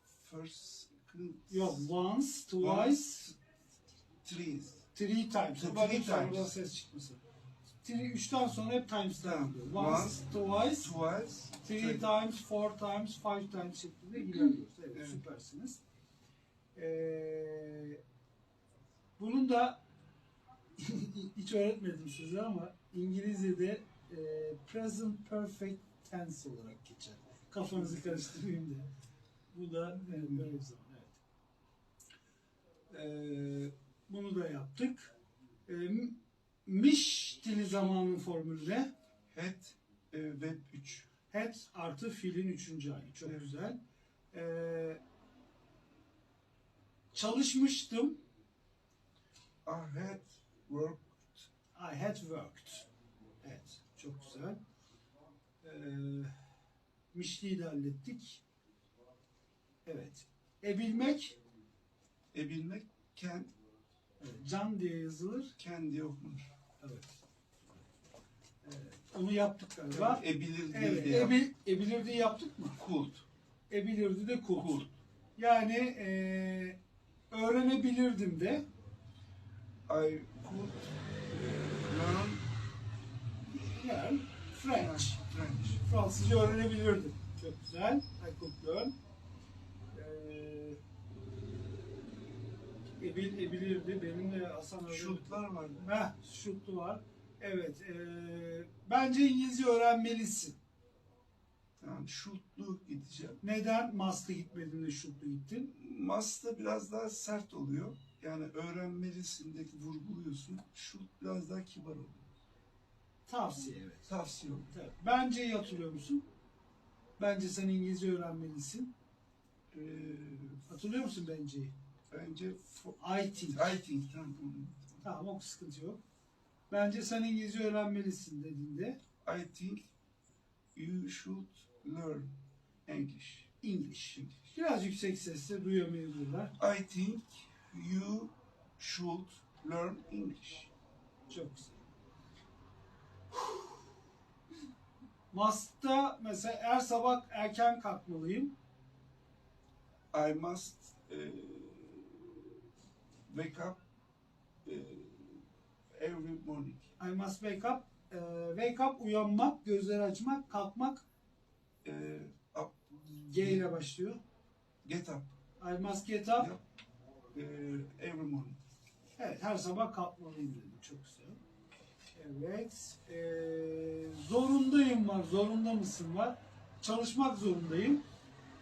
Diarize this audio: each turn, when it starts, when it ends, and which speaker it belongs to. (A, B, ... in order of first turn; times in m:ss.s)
0:00.2-0:01.9 A
0:01.5-0:03.3 B
0:02.6-0:03.3 A
0:04.2-0:04.9 A
0:04.9-0:07.2 B
0:05.6-0:06.5 A
0:07.8-0:10.9 B
0:09.2-0:10.3 A
0:10.8-0:12.1 A
0:11.6-0:15.8 B
0:14.9-0:15.2 A
0:16.8-0:18.0 B
0:19.2-0:19.8 B
0:20.8-0:28.9 B
0:27.7-0:28.2 A
0:29.5-0:31.2 B
0:29.9-0:30.5 A
0:32.9-0:35.1 B
0:35.7-0:38.9 B
0:39.3-0:41.1 A
0:41.3-0:43.8 B
0:43.2-0:43.5 A
0:44.3-0:45.0 B
0:47.1-0:48.2 B
0:49.6-0:51.5 A
0:51.8-0:52.9 B
0:53.4-0:54.6 B
0:55.6-0:56.3 B
0:57.1-0:58.4 B
0:59.8-1:01.4 B
1:02.3-1:03.5 A
1:04.2-1:05.5 B
1:05.6-1:06.5 A
1:06.8-1:07.1 B
1:08.6-1:12.8 B
1:09.9-1:11.4 A
1:12.8-1:13.2 A
1:13.7-1:14.9 B
1:14.5-1:14.9 A
1:15.4-1:16.8 B
1:17.3-1:18.6 B
1:19.9-1:22.4 A
1:23.5-1:25.2 B
1:24.7-1:25.8 A
1:25.8-1:28.9 B
1:29.9-1:30.8 B
1:33.0-1:35.3 B
1:34.9-1:35.9 A
1:35.8-1:40.6 B
1:41.8-1:43.4 A
1:43.4-1:45.7 B
1:45.7-1:52.3 A
1:53.3-1:54.1 B
1:54.1-1:54.7 A
1:54.7-1:56.2 B
1:57.2-1:58.9 B
1:59.7-2:00.6 A
2:00.7-2:01.8 B
2:02.1-2:03.0 A
2:03.0-2:03.8 B
2:03.5-2:05.0 A
2:05.0-2:06.0 B
2:06.7-2:09.0 B
2:09.2-2:09.9 A
2:10.7-2:12.3 A
2:12.9-2:13.6 A
2:13.6-2:16.5 B
2:16.6-2:20.7 A
2:21.3-2:21.8 B
2:25.3-2:28.5 B
2:30.1-2:32.5 A
2:33.3-2:33.8 A
2:34.6-2:35.4 A
2:36.0-2:36.9 A
2:37.0-2:41.0 B
2:41.8-2:42.8 A
2:42.9-2:44.2 B
2:43.4-2:43.7 A
2:44.8-2:45.3 A
2:45.6-2:46.5 B
2:46.4-2:46.6 A
2:47.3-2:48.6 A
2:49.2-2:51.4 B
2:52.1-2:58.0 B